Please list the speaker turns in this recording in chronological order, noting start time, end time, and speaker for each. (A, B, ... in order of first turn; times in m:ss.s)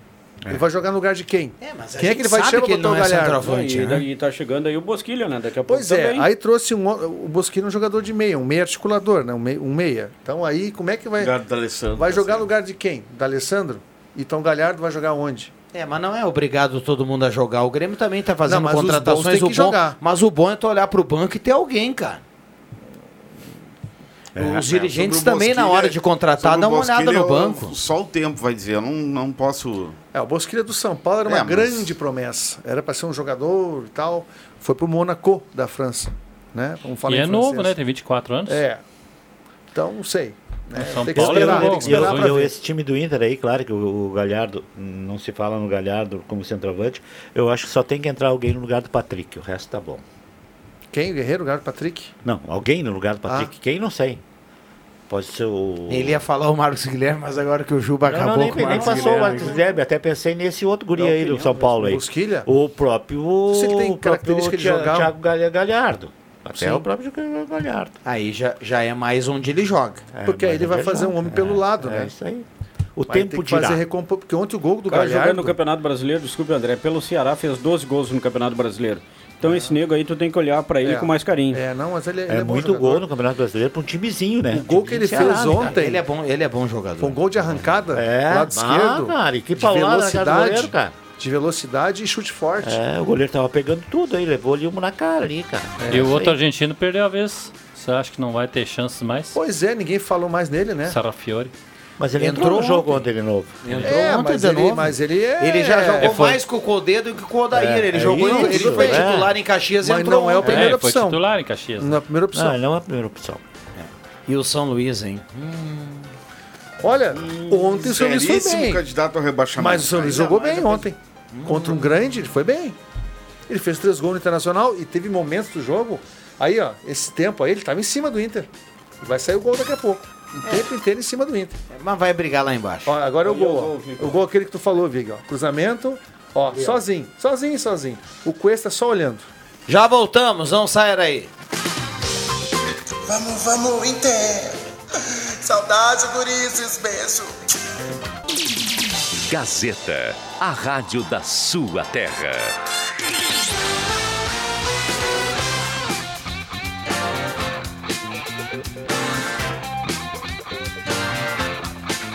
0:00.5-0:03.5 A
0:01.6-0:04.0 B
0:03.4-0:06.3 C
0:05.7-0:11.4 A
0:11.2-0:12.5 D
0:11.9-0:15.5 A
0:15.7-0:22.2 B
0:18.4-0:20.0 A
0:24.3-0:24.6 E
0:24.4-0:27.7 B
0:24.6-0:30.0 D
0:30.1-0:37.8 A
0:31.2-0:31.9 D
0:37.1-0:38.6 F
0:38.5-0:38.8 A
0:39.7-0:42.5 A
0:40.8-0:42.3 F
0:41.0-0:50.0 E
0:50.9-0:52.1 A
0:52.2-0:54.2 E
0:55.1-0:56.2 E
0:55.9-0:59.6 B
0:58.0-1:08.0 E
0:58.6-0:59.6 A
1:01.0-1:02.5 A
1:03.5-1:05.1 A
1:08.0-1:10.0 B
1:10.1-1:13.8 E
1:10.2-1:12.1 A
1:13.1-1:15.6 A
1:14.9-1:21.6 C
1:19.4-1:19.8 A
1:20.8-1:23.0 A
1:22.3-1:25.8 E
1:24.5-1:26.0 A
1:25.5-1:27.8 B
1:27.0-1:32.8 A
1:27.9-1:30.9 E
1:32.6-1:36.4 E
1:35.8-1:36.1 A
1:35.9-1:39.4 F
1:39.3-1:41.0 A
1:40.8-1:41.5 F
1:42.0-1:43.8 E
1:42.2-1:43.0 B
1:43.6-1:50.7 B
1:43.8-1:46.2 A
1:46.0-1:46.4 F
1:47.5-1:49.3 E
1:48.0-1:49.1 A
1:49.8-1:51.2 A
1:50.4-1:52.0 F
1:51.8-1:52.6 A
1:52.3-1:53.4 E
1:53.7-1:56.1 B
1:56.8-1:58.8 A
1:57.1-2:00.3 D
1:59.6-2:02.8 A
2:00.2-2:01.9 B
2:03.5-2:08.5 A
2:09.0-2:11.6 A
2:11.7-2:12.9 B
2:12.8-2:19.3 A
2:13.2-2:14.2 C
2:19.7-2:21.3 B
2:23.1-2:24.6 G
2:25.4-2:27.5 G
2:29.3-2:32.5 H